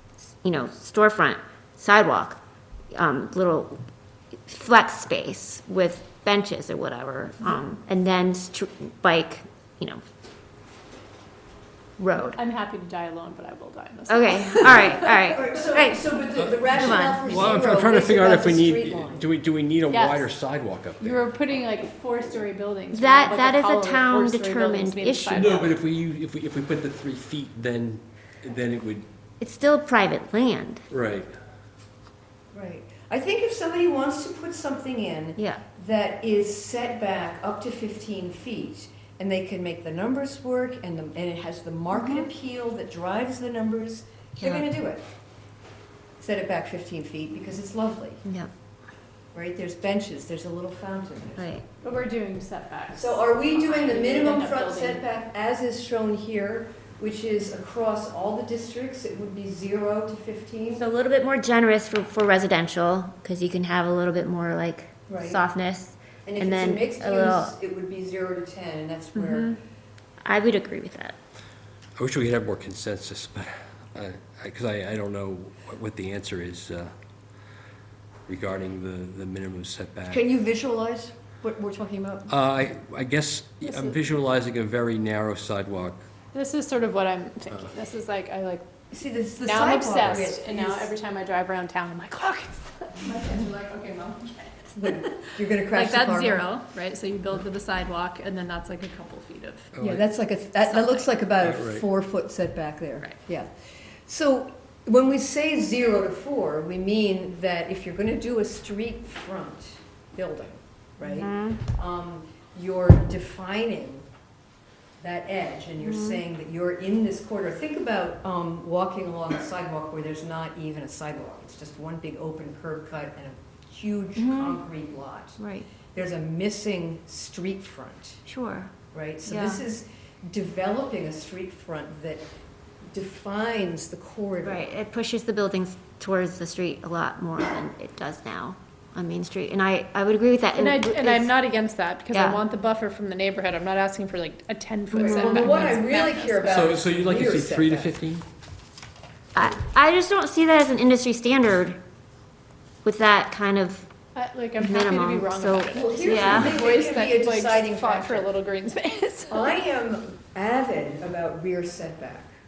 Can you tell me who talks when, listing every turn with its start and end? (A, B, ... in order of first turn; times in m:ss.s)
0:00.4-0:02.4 A
0:02.9-0:03.8 A
0:04.4-0:10.0 A
0:12.0-0:12.4 A
0:12.3-0:15.2 B
0:14.1-0:17.4 A
0:14.8-0:19.3 C
0:17.2-0:21.3 D
0:19.9-0:20.3 B
0:21.0-0:25.8 B
0:22.9-0:25.6 A
0:25.3-0:29.0 D
0:29.4-0:30.8 A
0:30.9-0:31.3 D
0:32.5-0:45.0 C
0:41.9-0:42.3 A
0:44.4-0:44.7 A
0:46.2-0:48.2 C
0:48.2-0:48.5 A
0:49.3-0:51.5 C
0:51.4-0:51.6 A
0:51.8-0:55.0 B
0:52.9-1:00.8 C
1:00.7-1:07.5 A
1:05.1-1:05.4 C
1:06.2-1:09.6 C
1:09.1-1:09.6 A
1:10.2-1:11.2 A
1:12.0-1:16.9 D
1:18.3-1:20.2 D
1:20.1-1:22.3 C
1:22.3-1:26.0 D
1:23.6-1:24.0 B
1:26.3-1:28.6 B
1:28.9-1:30.9 C
1:29.4-1:39.7 B
1:34.8-1:36.5 C
1:39.8-1:40.0 D
1:39.8-1:43.5 C
1:40.6-1:41.0 B
1:41.4-1:41.8 D
1:44.1-1:54.0 C
1:51.0-1:51.6 A
1:55.0-2:05.4 C
1:55.8-1:56.2 A
2:04.2-2:04.6 A
2:05.4-2:05.7 A
2:05.9-2:08.2 C
2:08.2-2:08.7 A
2:08.9-2:12.3 C
2:09.2-2:09.6 A
2:12.9-2:14.6 C
2:14.4-2:21.3 A
2:20.5-2:26.8 B
2:22.1-2:22.4 A
2:24.9-2:27.9 C
2:25.0-2:25.8 A
2:26.5-2:28.2 D
2:29.3-2:31.8 A
2:32.8-2:33.9 A
2:34.1-2:39.5 B
2:34.6-2:36.5 A
2:35.7-2:38.3 C
2:39.3-2:42.3 C